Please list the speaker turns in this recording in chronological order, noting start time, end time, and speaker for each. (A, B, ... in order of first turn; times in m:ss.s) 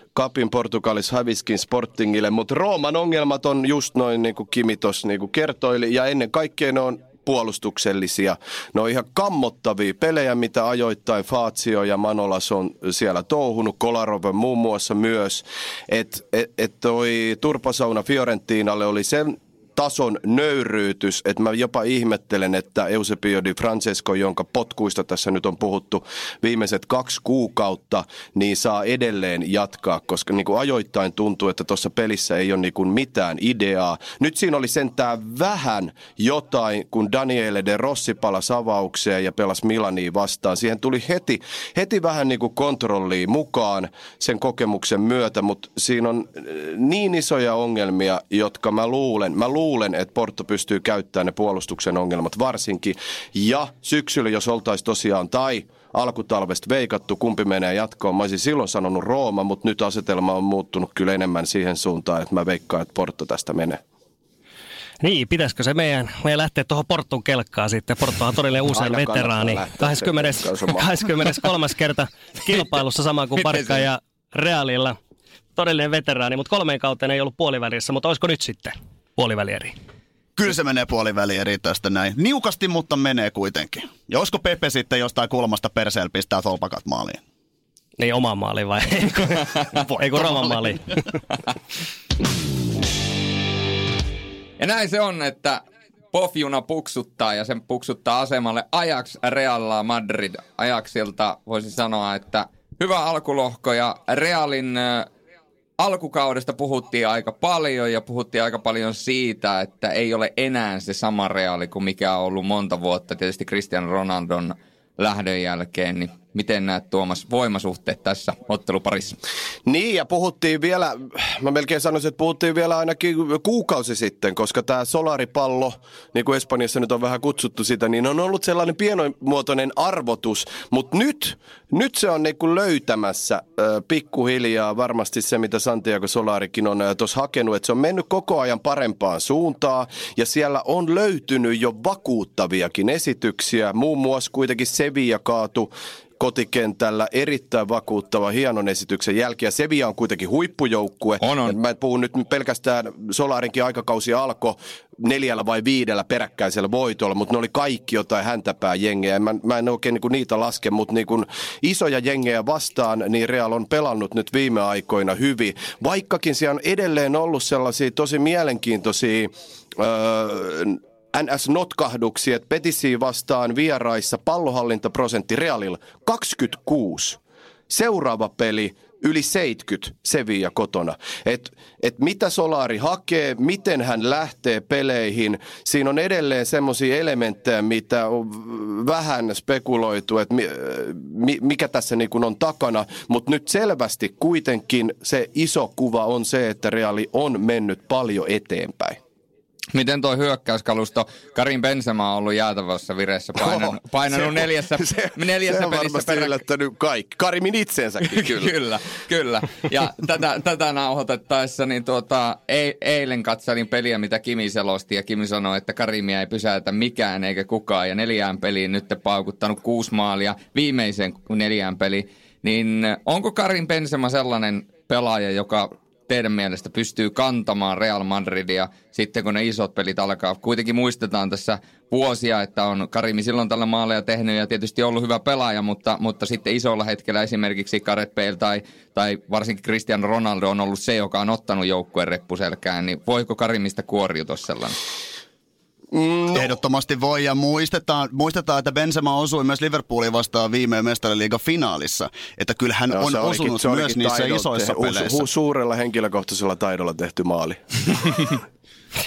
0:00.1-1:03.8 A
1:05.0-1:15.0 B
1:08.7-1:10.9 A
1:15.6-1:19.7 B
1:20.4-1:27.2 C
1:28.0-1:31.0 B
1:30.1-1:30.5 C
1:34.6-1:45.1 D
1:45.8-1:59.2 D
1:59.6-2:57.2 A
2:31.2-2:31.6 D
2:57.7-3:19.0 A
3:19.7-3:26.3 D
3:23.4-3:28.5 A
3:28.0-4:04.8 D
4:05.9-4:06.5 A
4:06.3-4:15.2 C
4:12.9-4:18.4 A